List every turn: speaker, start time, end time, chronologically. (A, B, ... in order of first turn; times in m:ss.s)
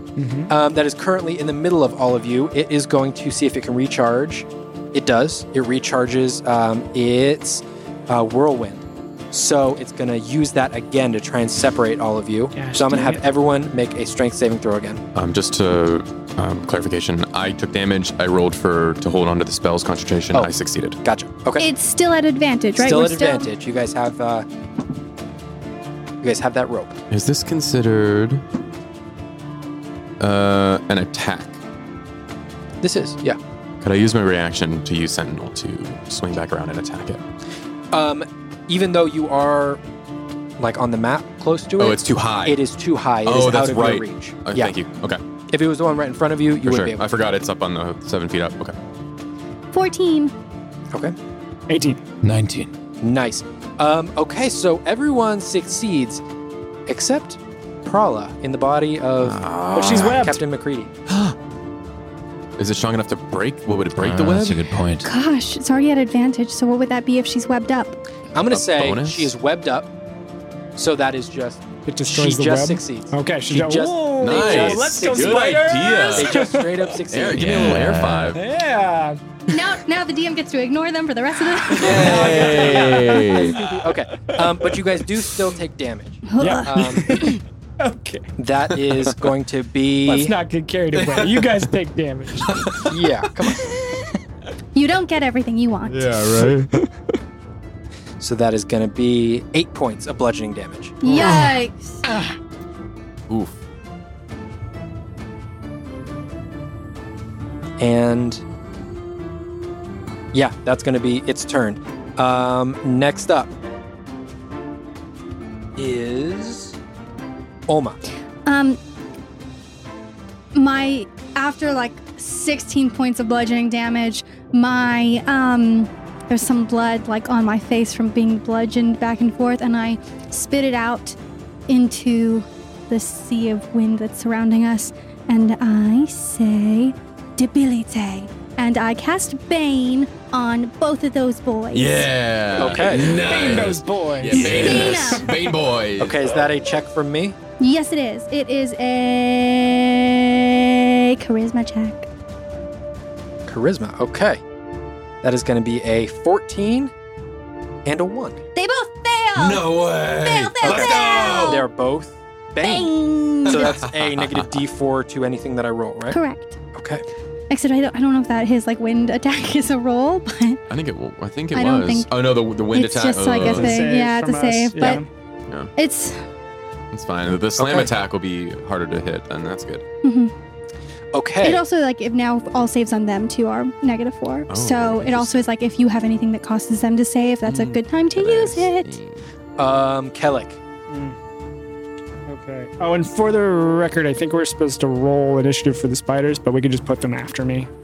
0:00.2-0:00.5 A
0:00.5-0:15.0 B
0:12.5-0:13.2 A
0:15.2-0:21.0 C
0:21.0-0:21.7 B
0:21.6-0:23.5 D
0:22.8-0:24.5 B
0:26.2-0:27.0 B
0:27.1-0:28.4 C
0:30.2-0:31.6 C
0:32.8-0:33.4 B
0:33.8-0:37.2 C
0:37.9-0:39.8 B
0:40.6-0:44.8 B
0:41.8-0:42.6 C
0:43.2-0:45.2 C
0:45.5-0:47.0 B
0:46.6-0:48.8 C
0:49.7-0:50.3 D
0:51.7-0:52.0 A
0:52.2-0:52.7 E
0:53.0-0:56.2 B
0:56.9-1:00.9 B
0:59.2-1:00.3 C
0:59.7-1:00.4 A
1:01.1-1:01.4 C
1:02.6-1:04.6 C
1:03.9-1:05.1 E
1:05.0-1:08.0 D
1:08.3-1:09.9 B
1:08.5-1:09.3 C
1:10.8-1:18.0 B
1:11.9-1:17.0 A
1:14.2-1:16.5 C
1:17.1-1:18.4 C
1:17.4-1:18.4 E
1:18.3-1:19.5 A
1:19.5-1:22.9 D
1:21.7-1:25.3 A
1:21.8-1:23.6 C
1:22.2-1:23.0 B
1:23.7-1:27.2 B
1:26.3-1:26.7 D
1:26.4-1:28.3 A
1:28.4-1:30.3 B
1:30.1-1:32.6 A
1:31.0-1:31.5 C
1:32.5-1:32.9 C
1:32.9-1:33.7 B
1:34.7-1:36.0 D
1:35.9-1:36.7 C
1:36.3-1:36.9 A
1:38.2-1:41.0 B
1:41.0-1:42.0 D
1:41.2-1:41.5 C
1:43.3-1:43.6 C
1:47.8-1:48.4 B
1:50.3-1:53.5 B
1:55.8-1:56.8 B
1:57.7-1:58.0 B
1:58.5-1:58.8 D
2:00.6-2:11.2 D
2:11.7-2:22.1 D
2:21.7-2:26.3 C
2:22.6-2:23.2 B
2:22.8-2:23.7 D
2:23.1-2:25.2 A
2:24.3-2:25.1 E
2:24.3-2:25.5 D
2:26.0-2:27.4 B
2:27.6-2:32.1 D
2:33.5-2:34.4 B
2:35.2-2:36.9 B
2:37.8-2:38.4 B
2:38.6-2:39.7 D
2:39.4-2:41.6 C
2:40.2-2:41.7 D
2:40.6-2:46.2 B
2:40.7-2:41.4 E
2:42.6-2:43.8 D
2:43.5-2:44.5 C
2:46.1-2:46.6 D
2:46.7-2:47.0 B
2:47.5-2:50.6 D
2:50.7-2:53.8 C
2:51.5-2:55.0 D
2:53.4-2:55.1 A
2:55.8-2:56.2 D
2:56.9-2:59.8 C
2:57.6-2:57.9 B
3:00.0-3:00.3 D
3:01.1-3:01.6 B
3:01.4-3:09.0 D
3:04.5-3:05.4 C
3:07.5-3:09.1 C
3:09.6-3:10.6 B
3:10.9-3:11.2 A
3:12.3-3:17.7 A